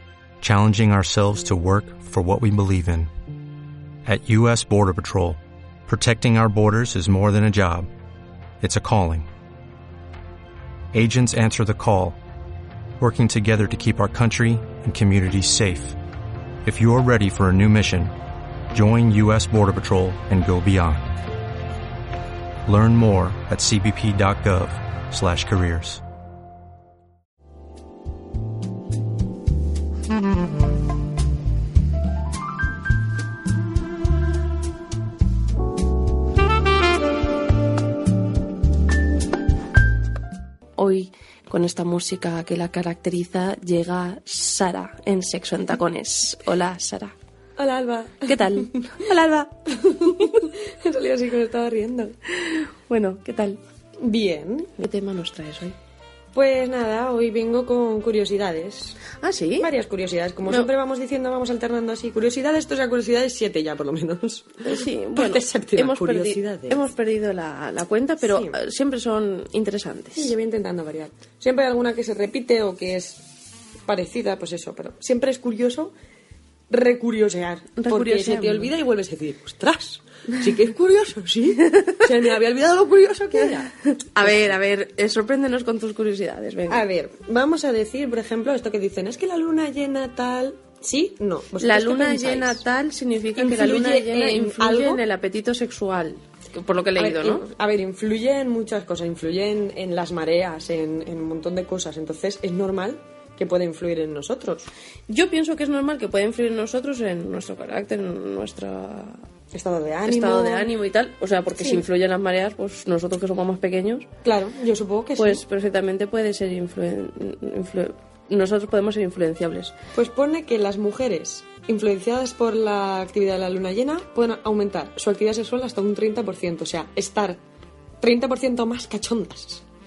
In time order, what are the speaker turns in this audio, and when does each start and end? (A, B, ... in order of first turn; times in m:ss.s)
0:00.4-0:03.1 A
0:04.1-0:07.9 A
0:08.6-0:09.3 A
0:10.9-0:12.2 A
0:13.0-0:16.0 A
0:16.6-0:18.1 A
0:18.7-0:21.1 A
0:22.6-0:26.0 A
0:40.8-0:47.1 B
0:47.6-0:49.0 C
0:48.2-0:49.6 B
0:49.7-0:52.2 C
0:50.1-0:50.4 B
0:52.4-0:53.6 B
0:54.0-0:54.7 C
0:54.8-0:55.8 B
0:56.3-0:59.0 C
0:59.2-0:59.7 B
0:59.6-1:06.9 C
1:04.6-1:10.3 B
1:08.2-1:08.6 C
1:10.2-1:13.3 C
1:13.9-1:15.9 C
1:16.7-1:24.6 C
1:17.8-1:18.7 B
1:21.7-1:22.0 B
1:23.8-1:26.8 B
1:26.7-1:32.6 C
1:31.6-1:37.5 B
1:33.4-1:35.0 C
1:37.0-1:44.7 C
1:45.1-1:49.2 B
1:49.5-1:50.7 C
1:50.0-1:54.1 B
1:51.5-1:51.8 C
1:54.2-1:55.4 C
1:55.2-1:59.8 B
1:59.9-2:07.4 C
2:08.0-2:09.6 C